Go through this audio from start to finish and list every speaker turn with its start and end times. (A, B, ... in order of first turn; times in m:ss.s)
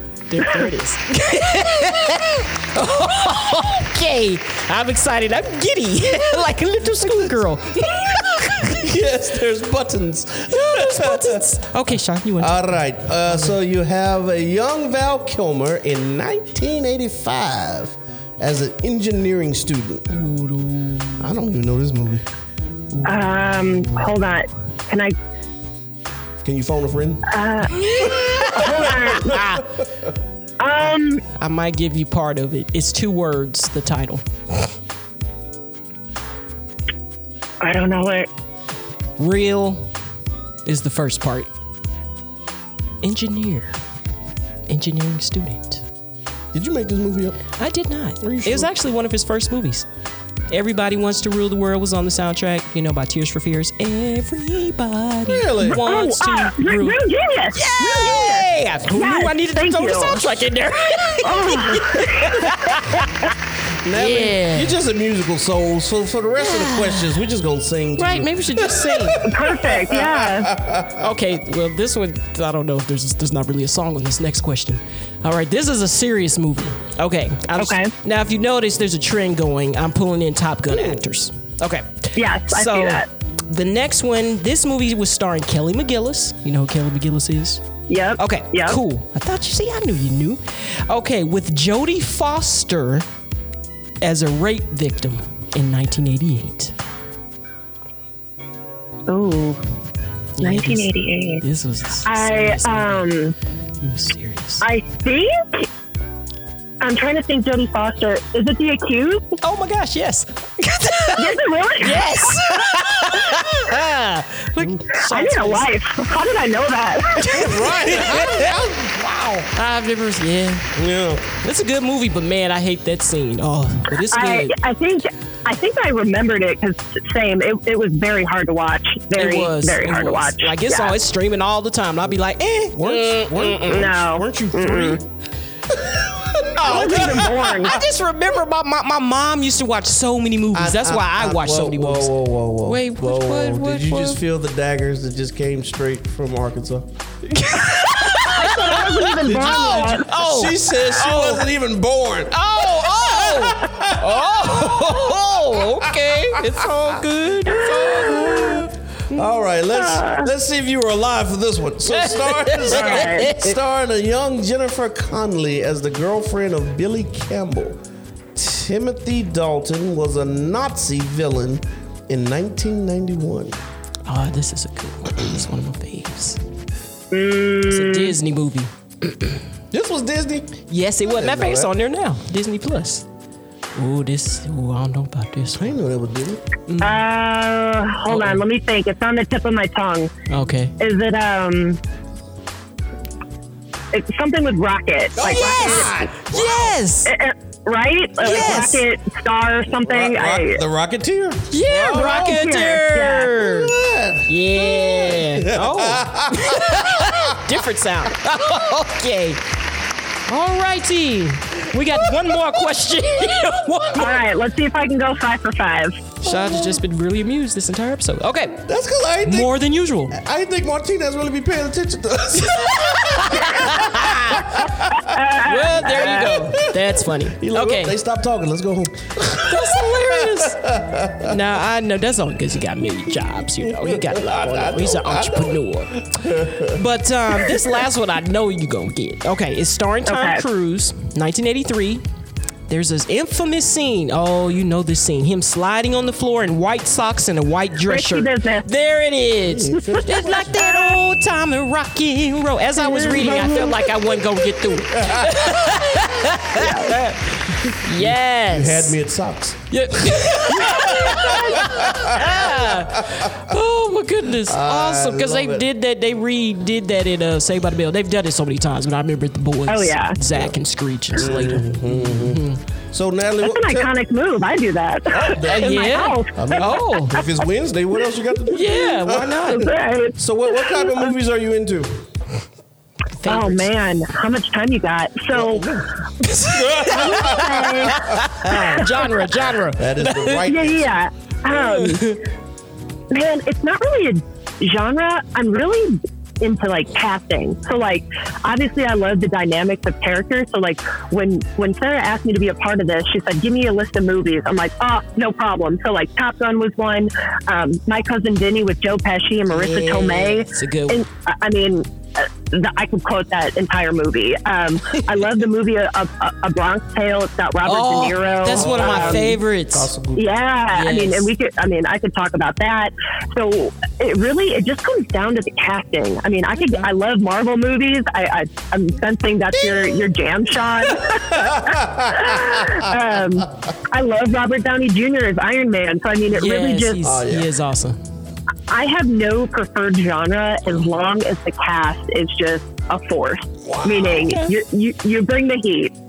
0:00.3-0:08.9 A
0:07.0-0:11.4 B
0:10.5-0:13.6 A
0:12.4-0:20.1 B
0:20.1-0:21.3 A
0:21.2-0:22.2 B
0:22.9-0:23.3 A
0:23.0-0:25.1 C
0:26.4-0:27.3 B
0:27.3-0:29.3 C
0:27.7-0:29.7 A
0:28.3-0:29.6 B
0:30.6-0:31.2 C
0:31.3-0:34.2 A
0:37.6-0:38.3 C
0:39.2-0:39.9 A
0:40.6-0:41.5 A
0:43.0-0:43.8 A
0:44.7-0:45.8 A
0:46.5-0:47.4 B
0:47.6-0:49.9 A
0:48.2-0:48.7 B
0:50.5-0:57.0 A
0:55.2-0:55.8 B
0:55.7-1:00.2 C
0:57.5-1:03.3 A
1:01.2-1:02.6 C
1:03.8-1:11.1 B
1:03.9-1:04.8 A
1:06.4-1:07.1 A
1:08.0-1:09.2 A
1:09.2-1:10.5 C
1:11.0-1:27.6 A
1:17.6-1:17.9 C
1:20.7-1:21.0 B
1:22.2-1:23.0 C
1:27.9-1:28.8 C
1:28.2-1:33.0 A
1:34.0-1:36.7 A
1:39.1-1:39.6 C
1:40.4-1:43.1 A
1:40.4-1:41.4 C
1:42.0-1:43.3 C
1:43.8-1:44.6 A
1:44.6-1:45.6 C
1:46.8-1:49.3 C
1:49.4-1:55.7 A
1:51.2-1:52.5 C
1:55.0-1:57.4 C
1:57.2-1:58.6 A
1:57.3-1:59.5 B
1:59.5-2:00.7 A
2:00.8-2:01.4 B
2:01.4-2:04.5 A
2:04.1-2:11.0 C
2:09.1-2:13.9 A
2:12.8-2:15.0 B
2:13.7-2:15.0 C
2:15.7-2:17.6 B
2:16.6-2:22.1 A
2:16.6-2:17.8 C
2:20.5-2:26.9 B
2:22.6-2:24.2 A
2:27.3-2:31.5 A
2:28.3-2:30.1 C
2:28.6-2:36.6 B
2:32.3-2:39.3 A
2:37.5-2:47.8 B
2:39.7-2:40.3 C
2:41.9-2:43.6 A
2:42.6-2:43.3 C
2:48.3-2:53.6 B
2:54.1-2:56.4 A
2:57.1-2:58.2 C
2:57.7-2:59.4 A
2:59.7-3:01.7 B
3:00.7-3:03.0 A
3:03.8-3:05.7 A
3:05.5-3:06.4 B
3:06.7-3:07.0 A
3:06.8-3:10.1 C
3:08.1-3:08.4 A
3:10.3-3:10.7 A
3:10.8-3:11.8 C
3:13.9-3:16.0 C
3:15.2-3:16.8 B
3:15.4-3:17.1 A
3:17.0-3:20.6 C
3:18.2-3:18.8 A
3:18.2-3:18.7 B
3:19.8-3:22.5 B
3:21.5-3:23.7 A
3:22.0-3:23.3 C
3:23.4-3:27.5 B
3:24.3-3:29.4 A
3:30.3-3:34.2 A
3:31.8-3:32.5 B
3:33.9-3:36.0 C
3:36.2-3:36.8 B
3:36.2-3:38.6 A
3:38.6-3:39.6 B
3:39.2-3:40.2 A
3:40.1-3:45.1 B
3:42.6-3:44.7 A
3:45.0-3:46.4 C
3:45.4-3:48.0 A
3:45.8-3:51.4 B
3:49.5-3:50.6 A
3:51.2-3:56.0 A
3:53.3-3:56.8 B
3:56.6-4:02.0 A
3:57.3-3:57.8 B
4:00.1-4:00.4 C
4:02.7-4:18.9 A
4:07.9-4:08.7 C
4:09.5-4:10.9 B
4:09.9-4:10.8 C
4:12.8-4:16.4 B
4:13.0-4:13.6 C
4:16.6-4:17.0 C
4:17.5-4:23.3 B
4:19.7-4:32.6 A
4:24.4-4:25.7 B
4:29.7-4:30.1 C
4:30.3-4:30.6 B
4:31.1-4:33.9 B
4:33.4-4:37.3 C
4:35.1-4:39.6 B
4:35.4-4:37.2 A
4:38.5-4:39.7 A
4:39.5-4:41.1 C
4:40.2-4:42.0 B
4:43.2-4:43.7 A
4:43.3-4:45.7 C
4:45.3-4:51.0 B
4:46.2-4:50.5 A
4:46.9-4:48.8 C
4:50.4-4:52.1 C
4:51.5-4:52.2 A
4:53.1-5:19.3 C
5:09.5-5:11.0 A
5:17.6-5:19.9 A
5:18.4-5:20.3 B
5:20.1-5:37.0 C
5:20.7-5:21.3 A
5:26.6-5:26.9 A
5:29.6-5:30.1 B
5:30.9-5:33.2 B
5:36.3-5:38.0 A
5:37.0-5:37.5 B
5:38.7-5:45.9 C
5:43.6-5:44.4 B
5:44.2-5:44.6 A